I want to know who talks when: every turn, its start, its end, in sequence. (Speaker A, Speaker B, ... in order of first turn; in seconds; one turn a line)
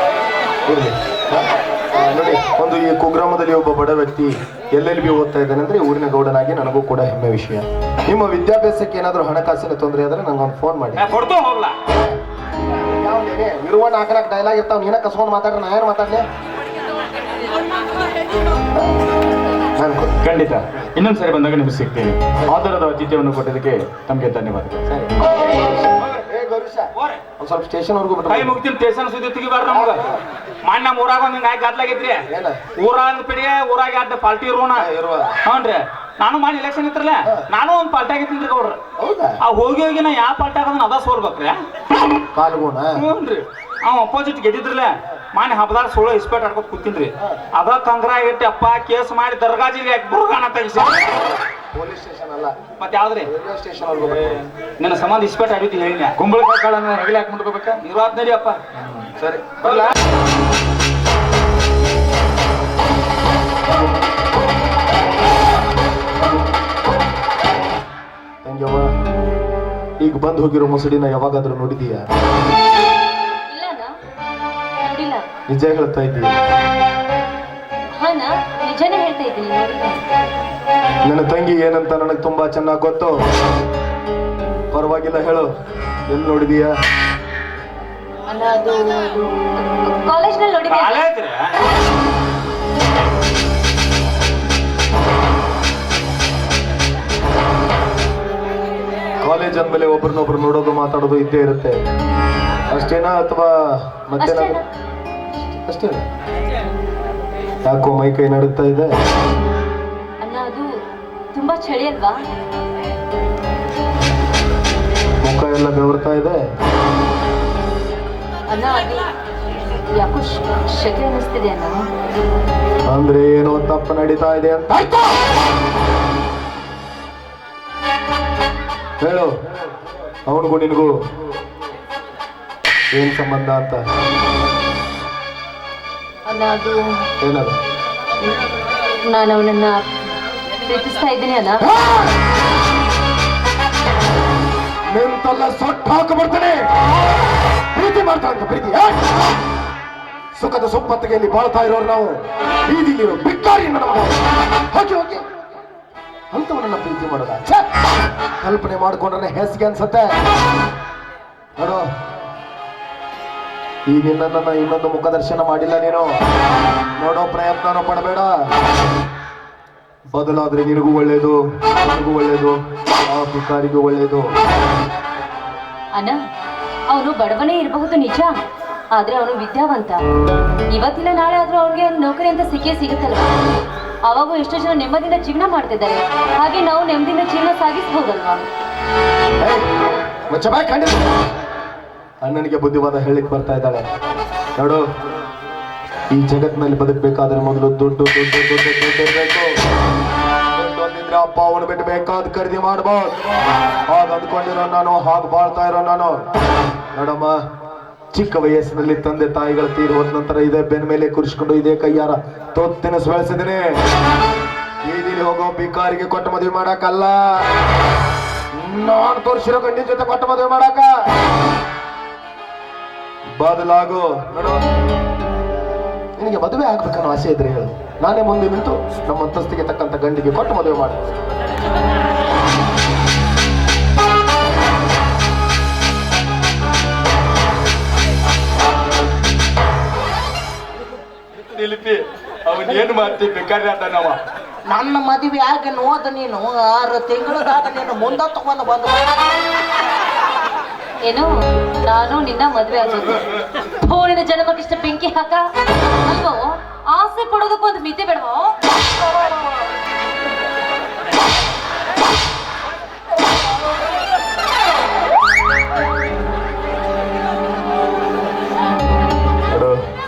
Speaker A: 0.7-11.1
Speaker B: 11.0-11.8
Speaker A: 11.9-12.2
Speaker A: 12.9-16.2
Speaker A: 19.8-20.2
Speaker C: 20.2-24.8
Speaker A: 24.9-28.6
Speaker B: 26.9-27.2
Speaker B: 28.3-30.1
Speaker A: 29.7-30.2
Speaker B: 30.6-32.2
Speaker A: 32.3-32.6
Speaker B: 32.8-34.9
Speaker A: 34.8-35.4
Speaker B: 35.4-38.8
Speaker A: 39.0-39.4
Speaker B: 39.4-41.6
Speaker A: 42.3-43.1
Speaker B: 42.9-51.2
Speaker A: 51.6-52.5
Speaker B: 52.8-53.3
Speaker A: 53.2-54.4
Speaker C: 54.0-54.4
Speaker B: 54.8-56.2
Speaker C: 56.2-57.8
Speaker B: 57.8-58.6
Speaker C: 58.8-59.9
Speaker B: 59.6-59.9
Speaker A: 68.4-68.9
Speaker A: 70.0-72.0
Speaker D: 73.5-73.9
Speaker D: 74.8-75.2
Speaker A: 75.5-76.3
Speaker D: 78.0-80.0
Speaker A: 81.0-83.1
Speaker A: 84.7-85.5
Speaker A: 86.1-86.7
Speaker D: 88.3-91.0
Speaker B: 90.7-91.5
Speaker A: 99.2-101.8
Speaker A: 102.7-104.6
Speaker D: 104.2-104.6
Speaker A: 105.7-106.0
Speaker A: 107.6-108.9
Speaker D: 110.2-110.7
Speaker D: 111.3-112.2
Speaker A: 115.2-116.4
Speaker D: 118.5-119.1
Speaker D: 120.0-121.9
Speaker A: 122.9-125.2
Speaker A: 129.0-129.3
Speaker A: 130.3-130.9
Speaker A: 132.9-133.8
Speaker D: 136.3-136.8
Speaker A: 137.2-137.5
Speaker D: 139.1-139.8
Speaker D: 140.6-141.7
Speaker A: 141.6-142.1
Speaker A: 144.9-146.7
Speaker A: 147.7-149.1
Speaker A: 150.3-154.2
Speaker A: 154.7-155.2
Speaker A: 156.3-157.7
Speaker A: 158.4-160.1
Speaker A: 161.6-161.9
Speaker A: 163.9-166.1
Speaker A: 167.0-168.3
Speaker A: 170.1-172.6
Speaker A: 173.1-174.3
Speaker D: 176.9-178.3
Speaker D: 178.9-180.0
Speaker D: 180.7-183.3
Speaker D: 184.0-188.4
Speaker A: 189.4-189.7
Speaker A: 190.3-191.1
Speaker A: 192.2-193.8
Speaker A: 194.6-194.8
Speaker A: 196.1-199.5
Speaker A: 200.5-203.2
Speaker A: 203.9-206.2
Speaker A: 206.9-207.4
Speaker A: 208.1-213.8
Speaker A: 214.8-217.2
Speaker A: 218.6-220.9
Speaker A: 223.4-224.6
Speaker A: 226.2-231.0
Speaker C: 241.5-244.2
Speaker E: 244.6-249.1
Speaker D: 251.0-255.4
Speaker D: 256.0-258.5
Speaker A: 269.5-269.8